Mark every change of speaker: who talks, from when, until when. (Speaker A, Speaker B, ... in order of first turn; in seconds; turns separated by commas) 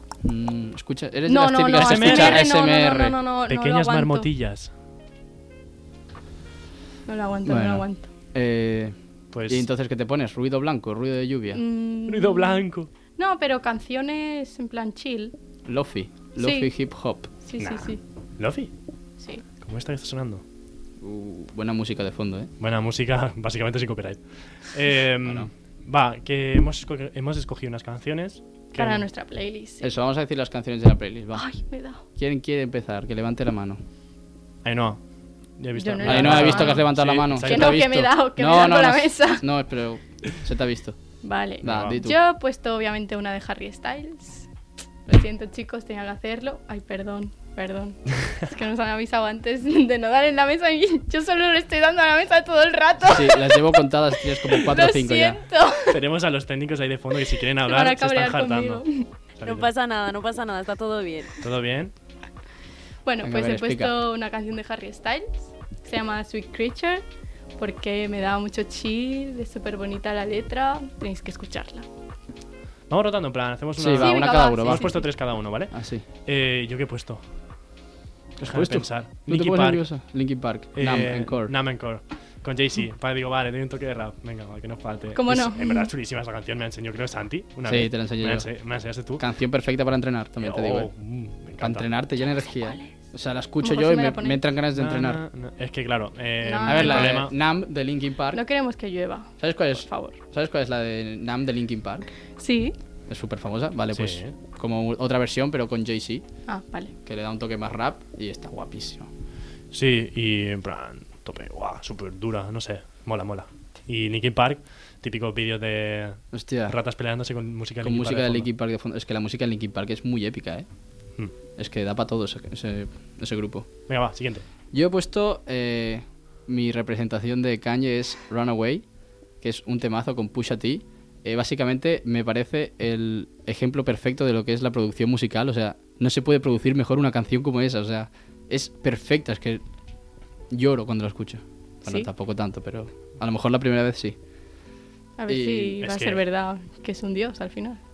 Speaker A: 0.2-3.2, Speaker B: 1.3-4.3, Speaker C: 1.8-2.5, Speaker C: 3.5-4.7, Speaker B: 7.1-8.1, Speaker A: 7.5-9.0, Speaker C: 9.3-9.7, Speaker A: 9.5-11.6, Speaker B: 11.5-12.6, Speaker C: 12.1-12.9, Speaker B: 13.2-15.3, Speaker A: 15.7-17.3, Speaker B: 16.4-16.7, Speaker B: 17.4-18.0, Speaker C: 17.6-18.7, Speaker C: 19.6-20.4, Speaker A: 21.0-22.5, Speaker C: 22.6-29.0, Speaker A: 25.2-25.5, Speaker B: 28.8-29.9, Speaker A: 29.8-31.5, Speaker B: 31.3-32.0, Speaker A: 32.1-33.8, Speaker C: 34.6-35.0, Speaker C: 35.6-37.9, Speaker B: 35.8-36.8, Speaker A: 36.0-41.0, Speaker B: 37.4-39.4, Speaker B: 41.2-44.5, Speaker A: 41.6-42.2, Speaker C: 41.6-42.0, Speaker B: 45.1-56.0, Speaker A: 53.1-55.4, Speaker C: 55.9-58.9, Speaker B: 57.6-59.1, Speaker C: 59.4-59.7, Speaker D: 59.4-61.4, Speaker C: 61.4-61.9, Speaker B: 63.0-67.0, Speaker A: 63.2-64.0, Speaker B: 67.6-71.9, Speaker C: 72.9-75.7, Speaker A: 73.8-74.9, Speaker B: 73.9-75.1, Speaker A: 75.7-76.0, Speaker C: 76.3-77.2, Speaker A: 78.4-81.5, Speaker C: 78.4-79.8, Speaker C: 80.8-89.2, Speaker B: 85.2-85.9, Speaker A: 87.7-88.5, Speaker A: 89.2-90.9, Speaker C: 90.4-91.9, Speaker A: 91.6-95.2, Speaker B: 92.6-92.9, Speaker B: 93.6-94.4, Speaker C: 94.7-97.3, Speaker B: 96.4-97.2, Speaker A: 96.6-98.4, Speaker B: 98.3-100.2, Speaker A: 99.4-102.1, Speaker B: 102.4-102.8, Speaker A: 103.1-106.2, Speaker C: 103.9-104.4, Speaker B: 106.5-106.9, Speaker A: 107.0-109.1, Speaker C: 109.7-118.5, Speaker A: 116.3-116.8, Speaker A: 117.8-120.7, Speaker A: 121.6-123.7, Speaker C: 123.9-124.5, Speaker A: 124.7-128.8, Speaker A: 129.4-139.6, Speaker A: 140.5-144.2, Speaker B: 145.2-147.8, Speaker A: 145.3-145.8, Speaker C: 145.8-146.2